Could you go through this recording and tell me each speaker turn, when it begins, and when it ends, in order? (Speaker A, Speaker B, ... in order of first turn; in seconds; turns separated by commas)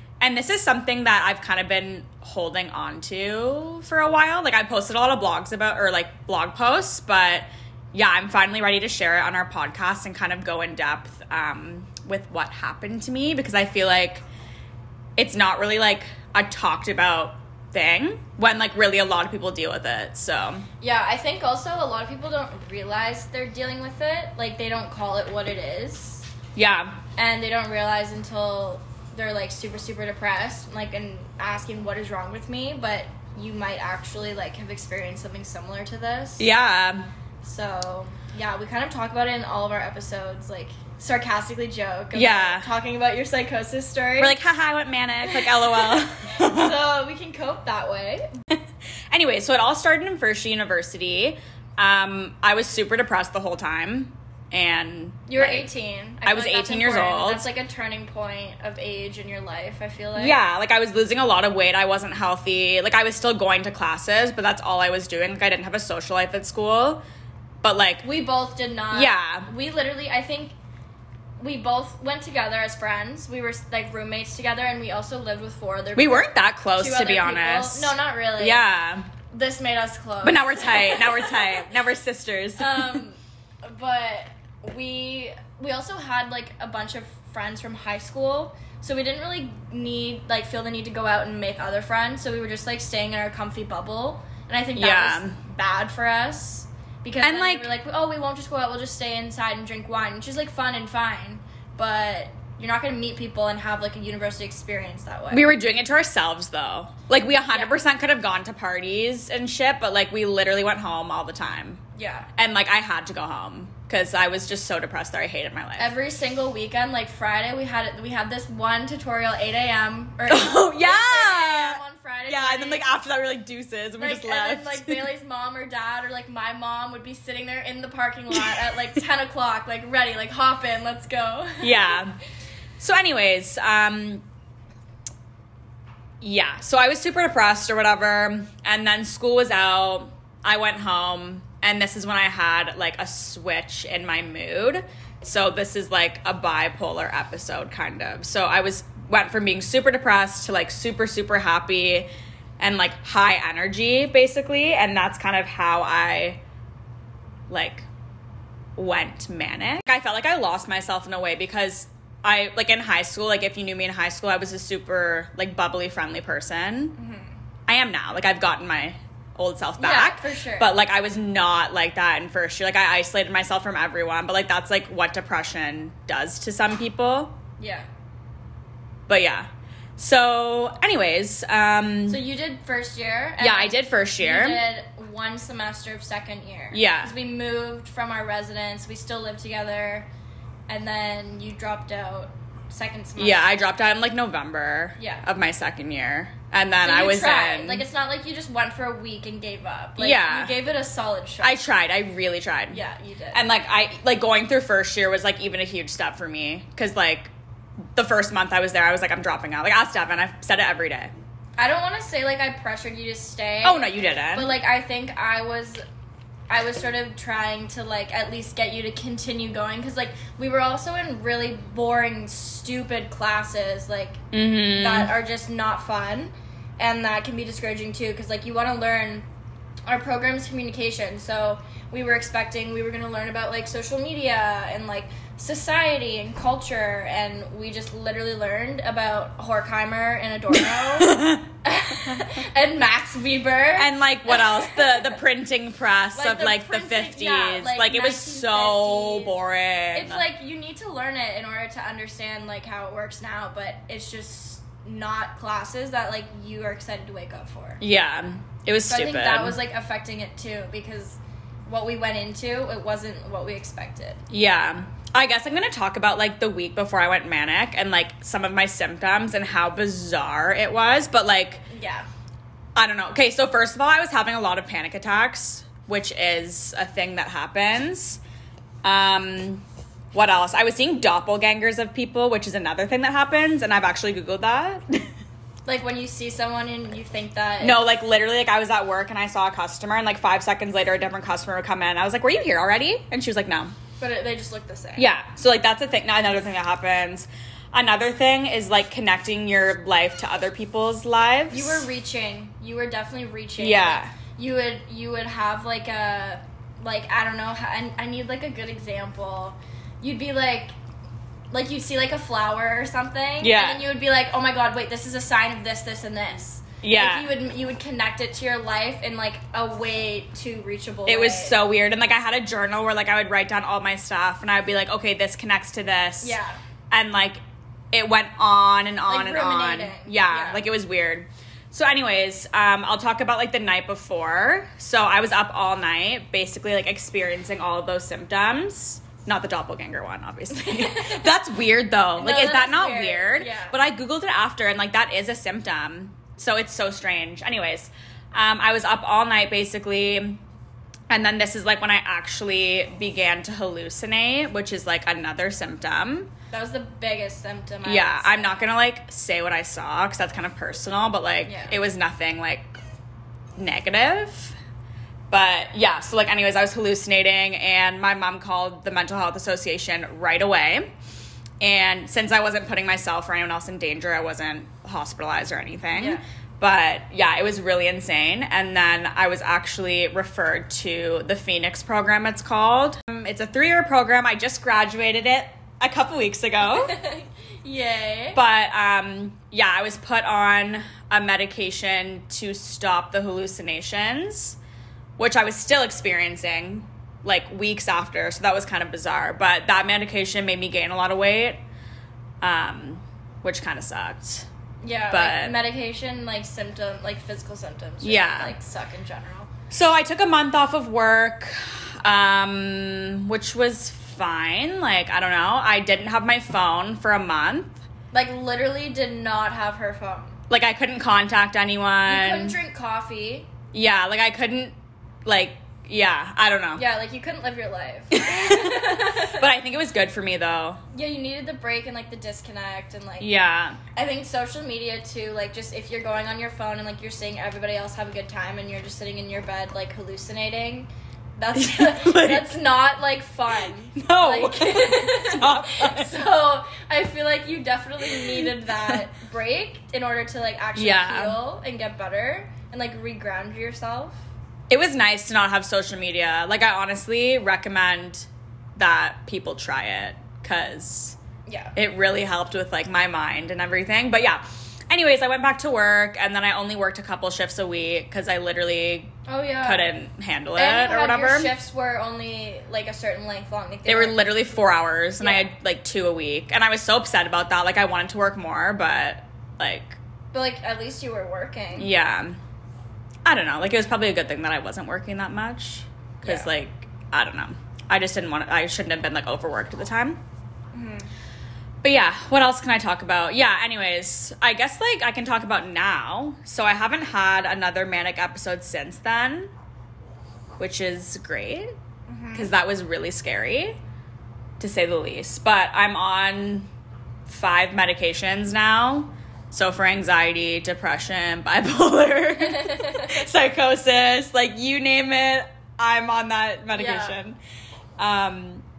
Speaker A: 0.2-14.2, Speaker A: 15.2-20.7, Speaker B: 20.8-26.3, Speaker A: 26.6-27.0, Speaker B: 27.2-36.5, Speaker A: 36.4-37.1, Speaker B: 37.4-44.4, Speaker A: 42.1-42.7, Speaker A: 44.2-46.7, Speaker B: 45.3-48.3, Speaker A: 49.1-55.7, Speaker B: 55.3-60.4, Speaker A: 56.2-57.5, Speaker A: 60.2-67.0, Speaker A: 67.6-68.1, Speaker B: 68.0-70.5, Speaker A: 68.9-69.5, Speaker B: 71.4-78.6, Speaker A: 76.0-79.1, Speaker B: 79.3-81.7, Speaker A: 80.2-83.0, Speaker B: 82.6-105.5, Speaker A: 94.8-95.4, Speaker A: 97.2-97.7, Speaker A: 105.3-111.8, Speaker B: 107.4-107.7, Speaker B: 112.0-112.3, Speaker A: 112.3-115.9, Speaker B: 115.8-122.9, Speaker A: 120.3-125.1, Speaker B: 124.0-132.0, Speaker A: 131.6-132.2, Speaker A: 132.8-134.2, Speaker A: 136.2-152.1, Speaker A: 152.6-156.4, Speaker A: 157.5-157.9, Speaker A: 158.8-167.0, Speaker B: 167.0-167.3, Speaker A: 167.7-177.4, Speaker B: 169.8-170.7, Speaker B: 177.6-177.9, Speaker A: 179.1-182.2, Speaker B: 182.1-190.1, Speaker A: 183.4-184.6, Speaker A: 186.7-187.1, Speaker B: 190.7-193.5, Speaker A: 193.2-197.8, Speaker B: 195.0-195.2, Speaker B: 196.8-201.6, Speaker A: 200.0-200.5, Speaker A: 201.4-202.8, Speaker B: 202.7-203.4, Speaker A: 203.3-207.3, Speaker A: 207.9-211.1, Speaker B: 211.6-215.8, Speaker A: 213.6-214.6, Speaker B: 216.5-224.2, Speaker A: 224.3-225.1, Speaker B: 224.7-229.3, Speaker B: 229.9-245.2, Speaker A: 240.8-241.5, Speaker A: 243.8-250.2, Speaker B: 246.2-249.3, Speaker B: 249.9-257.8, Speaker A: 257.8-259.6, Speaker B: 258.9-264.2, Speaker A: 264.3-271.6, Speaker B: 271.7-272.1, Speaker A: 272.8-278.2, Speaker A: 278.8-285.1, Speaker B: 285.7-287.8, Speaker A: 287.6-293.7, Speaker B: 294.0-295.1, Speaker A: 295.0-301.9, Speaker B: 301.5-310.8, Speaker A: 303.6-304.1, Speaker B: 311.5-321.6, Speaker A: 313.4-313.8, Speaker A: 316.8-317.3, Speaker A: 321.1-326.4, Speaker B: 326.2-326.6, Speaker A: 326.9-327.4, Speaker A: 327.9-350.4, Speaker B: 329.1-330.6, Speaker B: 340.6-341.3, Speaker B: 342.2-343.8, Speaker A: 351.1-356.3, Speaker B: 356.5-358.6, Speaker A: 357.8-362.7, Speaker B: 361.4-361.8, Speaker A: 363.6-364.6, Speaker A: 365.3-370.9, Speaker A: 371.6-386.9, Speaker B: 375.9-376.2, Speaker B: 386.7-388.4, Speaker A: 388.4-394.6, Speaker A: 395.2-401.6, Speaker A: 402.4-404.5, Speaker B: 404.8-409.5, Speaker A: 405.1-405.6, Speaker A: 408.0-408.5, Speaker A: 409.7-417.8, Speaker B: 418.1-420.4, Speaker A: 420.5-422.6, Speaker B: 422.1-423.5, Speaker A: 423.7-424.7, Speaker A: 425.2-426.8, Speaker B: 426.8-429.5, Speaker A: 428.1-430.8, Speaker B: 430.9-433.3, Speaker A: 433.2-433.8, Speaker B: 433.9-454.2, Speaker A: 441.5-442.6, Speaker A: 443.9-446.2, Speaker A: 448.1-448.9, Speaker A: 450.8-451.4, Speaker A: 454.7-461.2, Speaker B: 461.5-461.7, Speaker A: 461.8-469.1, Speaker B: 469.3-469.9, Speaker A: 469.6-471.5, Speaker B: 470.6-474.2, Speaker A: 473.9-480.0, Speaker B: 475.2-475.5, Speaker B: 480.3-481.9, Speaker A: 481.8-482.4, Speaker A: 483.3-490.2, Speaker B: 486.2-486.5, Speaker B: 490.7-491.1, Speaker A: 491.8-499.5, Speaker A: 500.6-501.7, Speaker B: 502.1-502.5, Speaker A: 502.3-503.8, Speaker A: 504.6-506.7, Speaker A: 507.3-517.4, Speaker B: 512.4-513.2, Speaker B: 516.7-517.2, Speaker A: 518.0-518.6